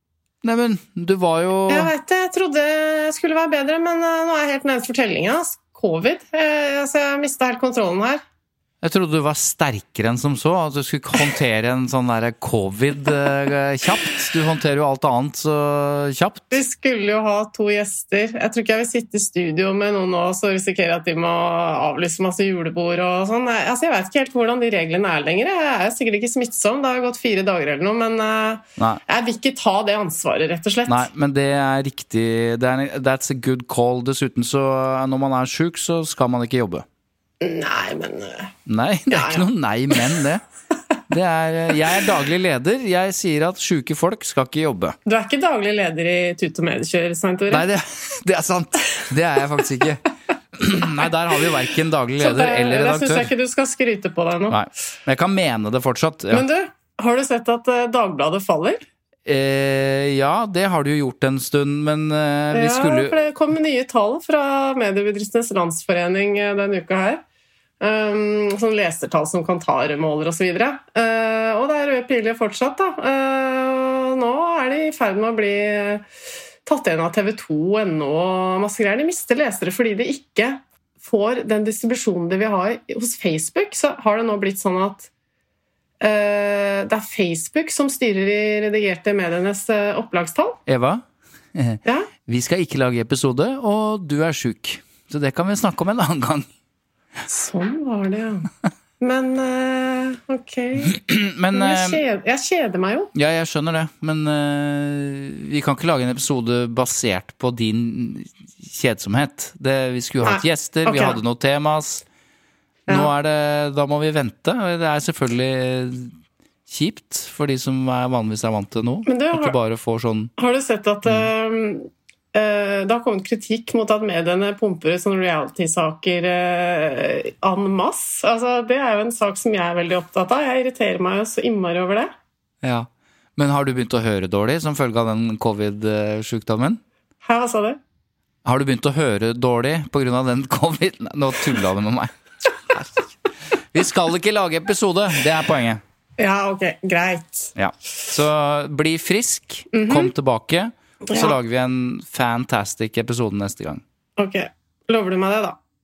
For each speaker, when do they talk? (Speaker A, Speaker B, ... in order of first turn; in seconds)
Speaker A: 0.4-1.9, 8.8-16.6, 30.9-36.8, 38.7-40.4, 41.1-45.0, 47.5-50.0, 50.5-53.3, 54.5-56.4, 59.2-63.2, 90.7-91.0, 91.5-96.5, 100.9-102.0, 103.1-112.0, 112.9-116.1, 116.7-120.3, 132.6-136.8, 138.4-142.1, 143.7-145.8, 147.6-153.8
Speaker B: 1.7-8.2, 16.5-31.1, 37.4-38.5, 39.1-40.0, 45.0-47.7, 52.2-54.6, 56.3-58.8, 62.5-67.2, 67.8-76.0, 76.6-85.1, 86.0-90.6, 91.8-92.1, 97.3-98.5, 99.0-101.0, 101.5-103.1, 110.2-111.2, 119.0-119.5, 120.4-132.1, 137.2-137.8, 146.2-147.5, 149.7-150.1, 151.1-151.4, 154.2-155.6